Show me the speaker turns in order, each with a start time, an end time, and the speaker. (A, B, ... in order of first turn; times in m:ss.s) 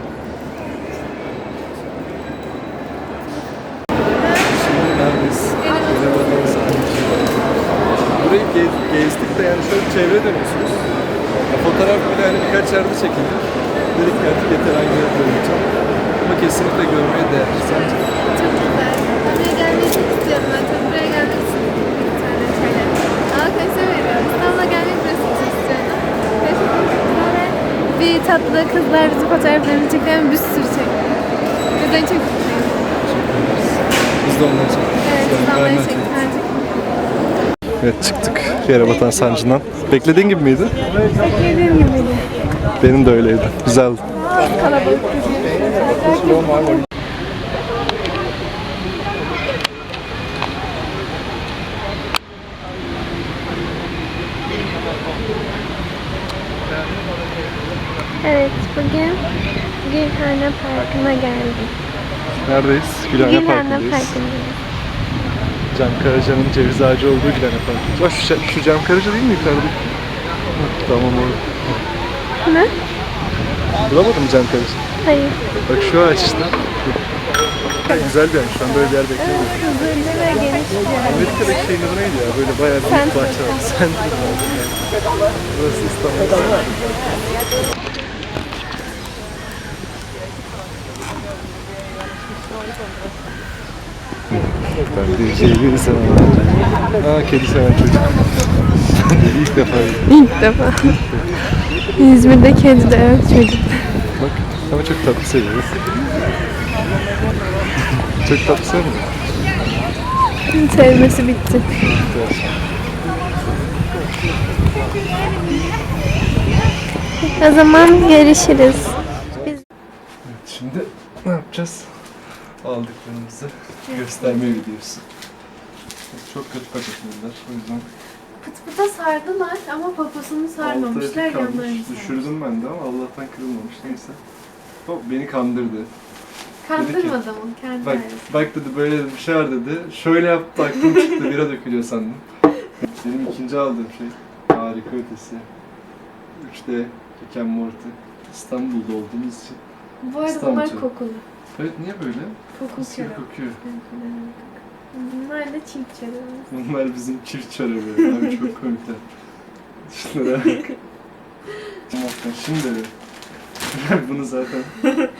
0:04.4-0:10.9 A
0:05.6-0:06.6 B
0:11.5-0:15.7 A
0:16.2-0:18.0 A
0:17.6-0:31.0 B
0:31.8-0:32.9 B
0:33.0-0:36.2 A
0:35.0-0:36.9 B
0:37.8-0:40.8 A
0:40.9-0:42.4 B
0:42.8-0:44.1 A
0:44.4-0:46.8 B
0:45.9-0:46.8 A
0:58.2-0:59.2 B
0:59.8-1:01.8 B
1:02.4-1:04.2 A
1:03.1-1:04.6 B
1:05.7-1:09.8 A
1:10.6-1:11.8 A
1:12.5-1:12.7 B
1:13.9-1:14.8 A
1:15.0-1:15.4 B
1:15.7-1:17.0 A
1:17.8-1:19.6 A
1:19.2-1:21.6 B
1:21.0-1:24.9 A
1:22.9-1:23.7 B
1:25.5-1:27.0 A
1:34.3-1:38.3 A
1:39.0-1:40.1 A
1:40.1-1:41.0 B
1:41.0-1:41.3 A
1:42.0-1:43.9 B
1:44.2-1:45.9 A
1:48.2-1:49.2 A
1:50.5-1:51.7 B
1:51.8-1:52.6 A
1:57.2-1:59.0 B
1:59.3-1:59.6 A
2:00.2-2:02.1 A
2:02.6-2:05.0 A
2:03.9-2:04.7 B
2:06.1-2:07.9 A
2:08.4-2:12.3 B
2:10.6-2:14.2 A
2:14.8-2:15.9 A
2:16.6-2:18.3 B
2:16.8-2:17.2 A
2:17.8-2:22.2 A
2:22.8-2:25.5 A
2:26.4-2:29.6 A
2:30.0-2:31.2 B
2:30.2-2:30.9 A
2:31.5-2:33.6 A
2:32.5-2:36.5 B
2:36.5-2:39.0 A
2:39.8-2:40.7 A
2:41.9-2:42.9 A
2:43.7-2:44.9 A